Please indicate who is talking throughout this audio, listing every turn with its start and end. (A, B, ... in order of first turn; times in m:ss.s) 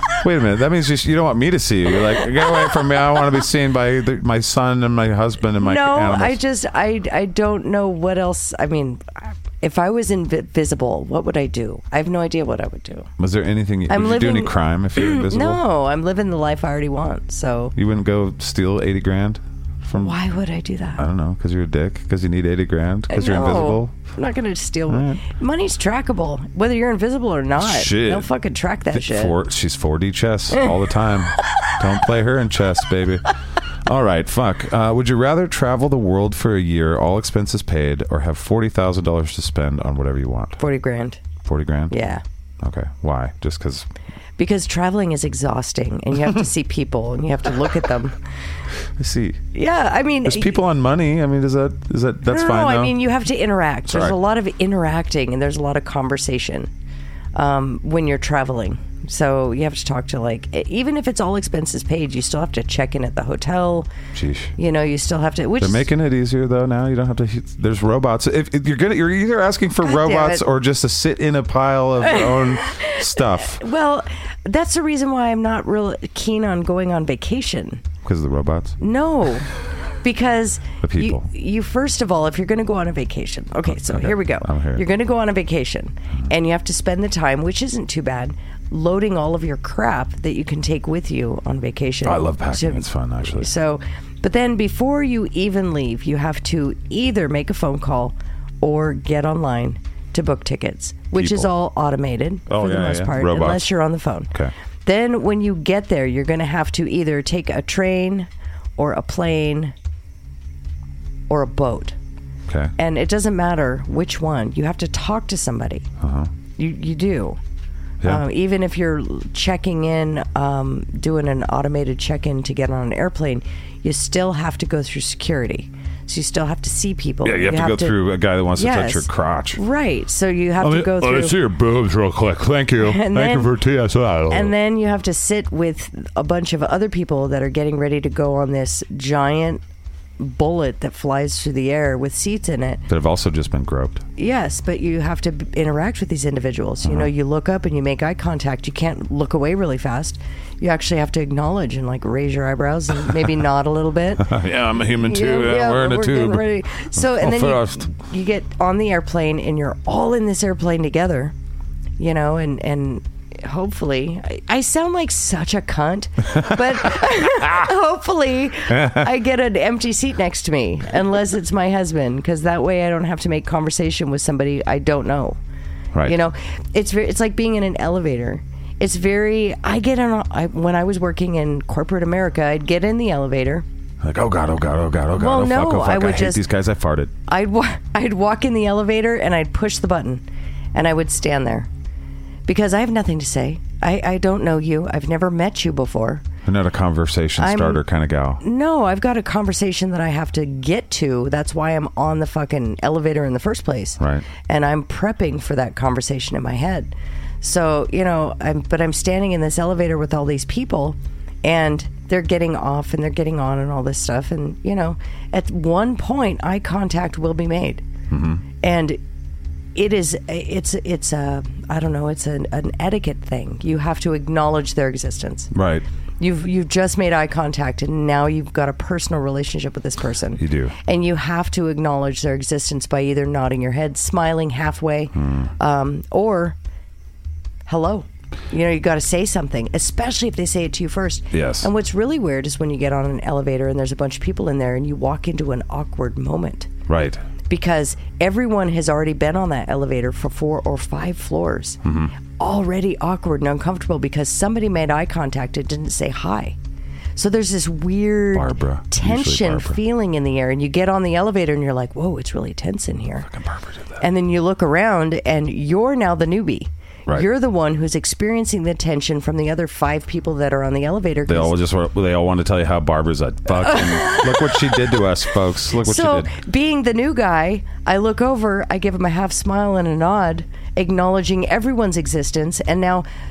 0:00.2-0:06.4 A
0:02.5-0:02.7 B
0:05.6-0:13.1 B
0:13.2-0:15.6 A
0:13.9-0:17.7 B
0:17.8-0:20.2 A
0:20.0-0:21.0 B
0:21.0-0:23.9 A
0:23.1-0:29.4 B
0:24.9-0:25.2 A
0:27.6-0:28.3 A
0:28.9-0:33.3 A
0:33.8-0:40.6 A
0:40.6-0:41.2 B
0:41.4-0:42.0 A
0:41.9-0:42.2 B
0:42.6-0:43.9 A
0:44.4-0:48.2 B
0:49.0-0:49.4 A
0:49.5-0:50.6 B
0:50.2-0:53.0 A
0:52.2-0:56.7 B
0:53.9-0:54.2 A
0:57.3-1:03.9 B
1:04.1-1:04.5 A
1:04.6-1:05.9 B
1:05.6-1:13.6 A
1:09.8-1:10.4 B
1:12.0-1:17.8 B
1:18.0-1:18.8 A
1:18.8-1:19.5 B
1:20.0-1:44.3 B
1:20.8-1:21.3 A
1:23.7-1:24.8 A
1:32.0-1:33.5 A
1:41.2-1:41.5 A
1:42.5-1:43.7 A
1:44.8-1:49.7 B
1:51.3-1:52.0 B
1:52.5-1:52.7 A
1:52.8-1:55.9 B
1:56.0-1:56.3 A
1:56.6-1:57.4 B
1:58.0-2:08.0 B
2:07.2-2:09.6 A
2:08.5-2:11.4 B
2:10.6-2:14.5 C
2:12.8-2:13.6 B
2:14.3-2:19.6 B
2:20.2-2:22.8 B
2:22.9-2:24.0 A
2:24.2-2:41.3 B
2:26.8-2:27.1 A
2:34.2-2:37.9 A
2:34.5-2:35.8 C
2:42.0-2:55.4 B
2:48.7-2:49.0 A
2:56.0-3:03.6 B
3:04.0-3:07.1 A
3:05.1-3:06.4 B
3:07.3-3:10.2 B
3:10.7-3:11.7 B
3:12.4-3:16.2 B
3:16.4-3:18.4 A
3:17.4-3:17.8 B
3:18.4-3:37.8 B
3:24.0-3:24.2 A
3:38.1-3:38.4 A
3:38.6-3:39.0 B
3:39.7-3:45.5 B
3:45.5-3:45.8 A
3:46.2-3:56.6 B
3:50.4-3:50.7 A
3:55.2-3:55.5 A
3:57.7-4:06.7 B
4:01.3-4:01.7 A
4:06.9-4:07.2 A
4:07.5-4:11.8 B
4:11.8-4:12.1 A
4:12.4-4:16.6 B
4:17.2-4:23.3 B
4:18.3-4:19.8 A
4:23.3-4:24.0 A
4:24.0-4:31.5 B
4:31.3-4:36.3 A
4:33.6-4:35.0 B
4:35.7-4:43.0 B